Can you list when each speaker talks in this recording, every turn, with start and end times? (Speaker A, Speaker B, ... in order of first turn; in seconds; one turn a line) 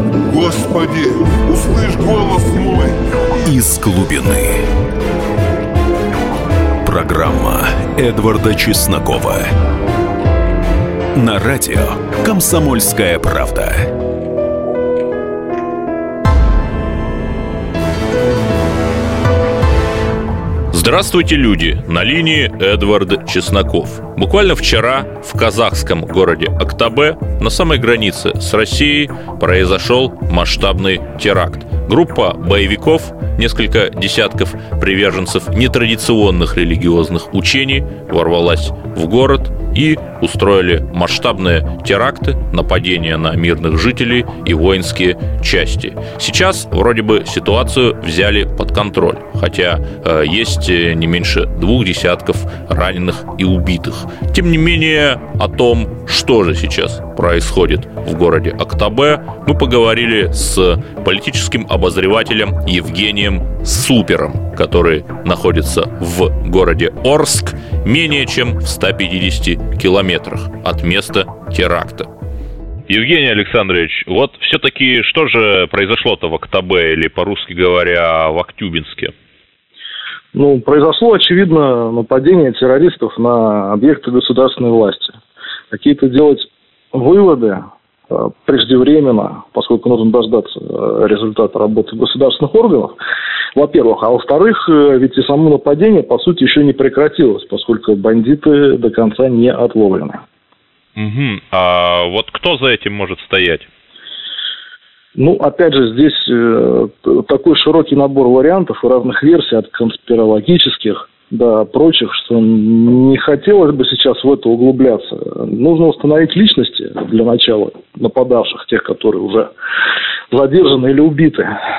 Speaker A: 0.2-3.0
Speaker B: 3.4-4.7
Speaker B: 6.8-9.5
Speaker B: 11.1-13.9
Speaker C: 20.7-72.1
Speaker C: 72.9-79.1
Speaker D: 80.3-85.2
Speaker D: 85.7-92.9
Speaker D: 93.5-100.2
Speaker C: 101.0-103.7
Speaker D: 105.2-119.5
Speaker D: 120.3-121.5